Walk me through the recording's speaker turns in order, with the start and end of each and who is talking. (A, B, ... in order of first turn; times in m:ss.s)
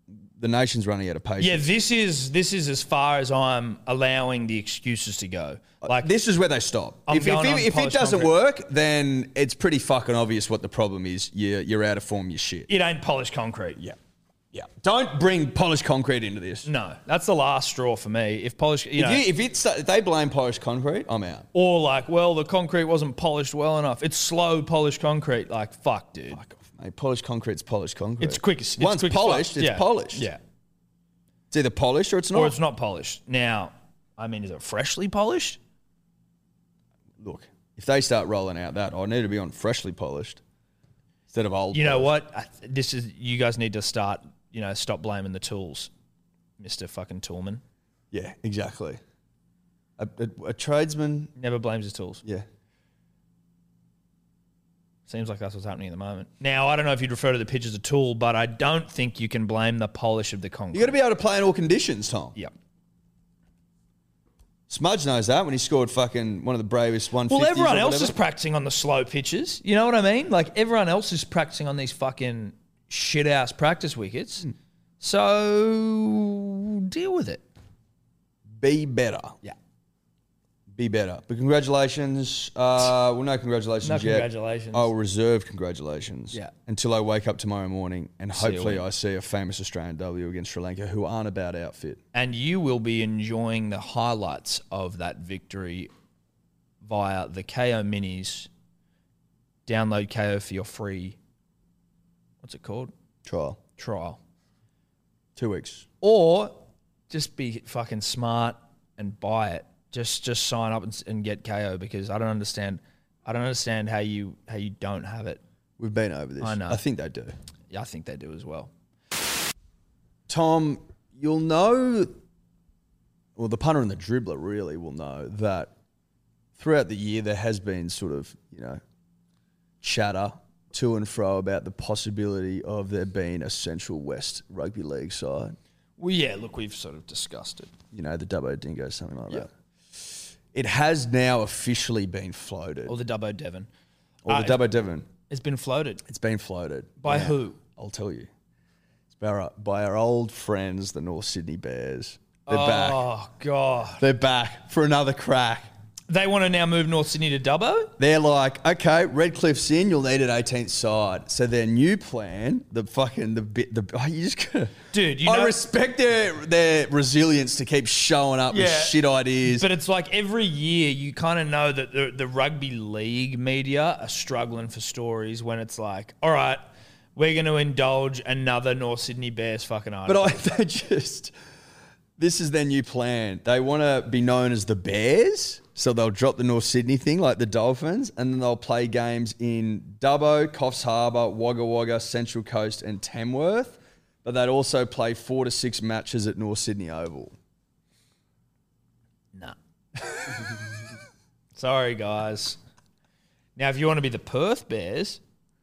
0:00.4-0:01.7 A
0:01.4-0:06.1 B
0:05.8-0:12.7 A
0:07.1-0:08.3 B
0:12.7-0:13.8 B
0:14.5-0:16.7 A
0:16.6-0:19.2 B
0:19.0-0:21.5 A
0:21.5-0:26.4 B
0:26.3-0:30.3 A
0:28.2-0:30.4 B
0:31.5-0:32.6 A
0:32.3-0:35.6 B
0:37.2-0:40.4 A
0:41.3-0:42.1 A
0:41.7-0:45.9 B
0:46.6-0:47.6 B
0:48.1-0:49.0 A
0:50.0-0:51.3 A
0:51.4-0:52.2 B
0:55.1-1:01.0 B
1:00.7-1:02.4 A
1:04.7-1:08.2 A
1:07.3-1:14.5 B
1:15.0-1:17.4 B
1:18.6-1:19.4 A
1:20.7-1:32.0 A
1:23.8-1:24.9 B
1:28.3-1:28.8 B
1:32.1-1:35.9 B
1:36.8-1:38.5 B
1:39.7-1:41.2 B
1:42.4-1:42.9 B
1:43.3-1:43.6 A
1:43.8-1:44.2 B
1:45.4-1:45.8 A
1:46.0-1:55.4 B
1:55.8-1:57.3 A
1:56.4-1:56.8 B
1:57.7-1:58.7 B
2:00.3-2:02.1 A
2:03.4-2:05.7 A
2:06.6-2:08.8 A
2:09.8-2:15.6 A
2:16.0-2:17.7 B
2:17.9-2:22.9 A
2:22.9-2:23.7 B
2:24.2-2:25.1 A
2:24.3-2:24.6 B
2:25.3-2:26.0 B
2:26.1-2:28.3 A
2:27.0-2:27.6 B
2:29.1-2:33.1 A
2:32.5-2:34.0 B
2:34.0-2:35.7 A
2:36.1-2:38.0 B
2:38.0-2:49.7 A
2:44.9-2:45.6 B
2:48.5-2:56.6 B
2:57.2-3:00.5 B
3:00.1-3:01.3 A
3:02.2-3:17.3 A
3:19.3-3:20.4 B
3:21.6-3:22.6 B
3:23.6-3:25.2 B